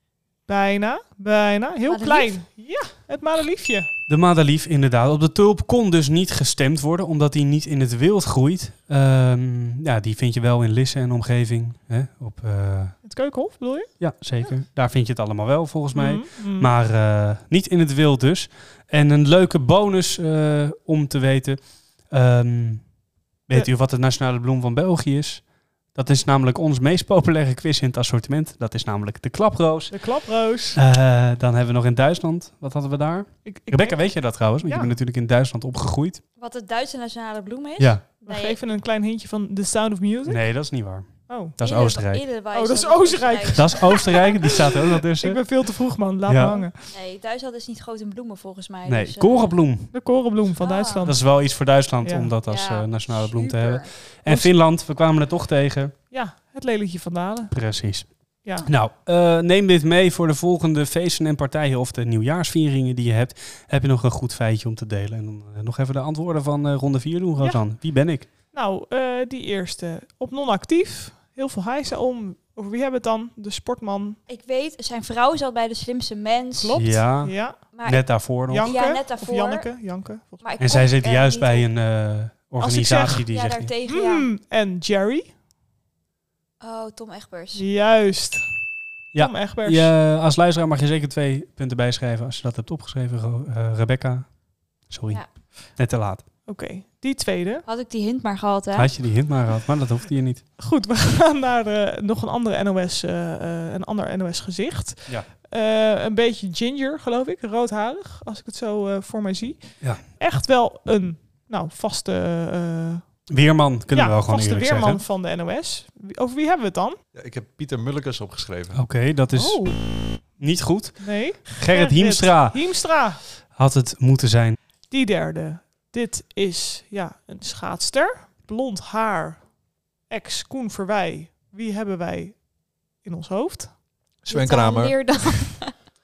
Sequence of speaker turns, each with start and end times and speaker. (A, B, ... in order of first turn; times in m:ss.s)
0:00.5-0:03.9 A
0:01.9-0:02.4 B
0:04.1-0:13.0 C
0:13.0-0:13.9 A
0:14.0-0:22.8 C
0:15.9-0:16.7 A
0:23.5-0:30.1 C
0:29.9-0:30.8 A
0:30.7-0:36.2 C
0:33.4-0:34.0 A
0:34.6-0:34.9 A
0:36.4-0:38.6 B
0:37.8-0:38.0 C
0:38.2-0:40.4 A
0:40.2-0:42.2 C
0:41.3-0:41.6 A
0:41.6-0:44.3 B
0:42.5-0:46.9 A
0:43.5-0:45.4 C
0:46.3-0:46.6 C
0:46.9-0:49.5 B
0:48.8-0:49.9 C
0:49.9-0:51.2 A
0:50.6-0:51.1 B
0:51.0-0:55.9 C
0:52.0-0:52.3 A
0:52.4-0:53.9 B
0:54.3-0:54.5 A
0:56.1-0:57.5 A
0:57.5-1:08.3 C
1:07.4-1:07.6 A
1:08.5-1:14.2 A
1:14.3-1:17.0 B
1:16.6-1:17.6 A
1:16.7-1:18.7 C
1:17.7-1:19.7 B
1:18.5-1:20.4 A
1:20.4-1:21.6 B
1:20.6-1:23.7 C
1:22.6-1:23.2 A
1:23.3-1:24.3 B
1:23.9-1:25.3 A
1:26.6-1:27.6 B
1:27.6-1:28.5 A
1:29.1-1:34.3 C
1:29.2-1:29.9 A
1:34.9-1:35.2 C
1:35.7-1:36.2 C
1:36.5-1:37.6 A
1:37.6-1:38.9 B
1:38.7-1:40.4 C
1:40.6-1:53.0 A
1:53.3-1:55.0 C
1:53.9-1:57.0 A
1:57.1-1:58.8 D
1:58.7-2:02.6 C
1:59.3-2:00.2 A
2:01.0-2:03.2 A
2:03.5-2:04.6 C
2:04.9-2:09.4 A
2:10.1-2:12.5 A
2:13.0-2:13.7 A
2:14.2-2:15.0 D
2:14.3-2:15.7 B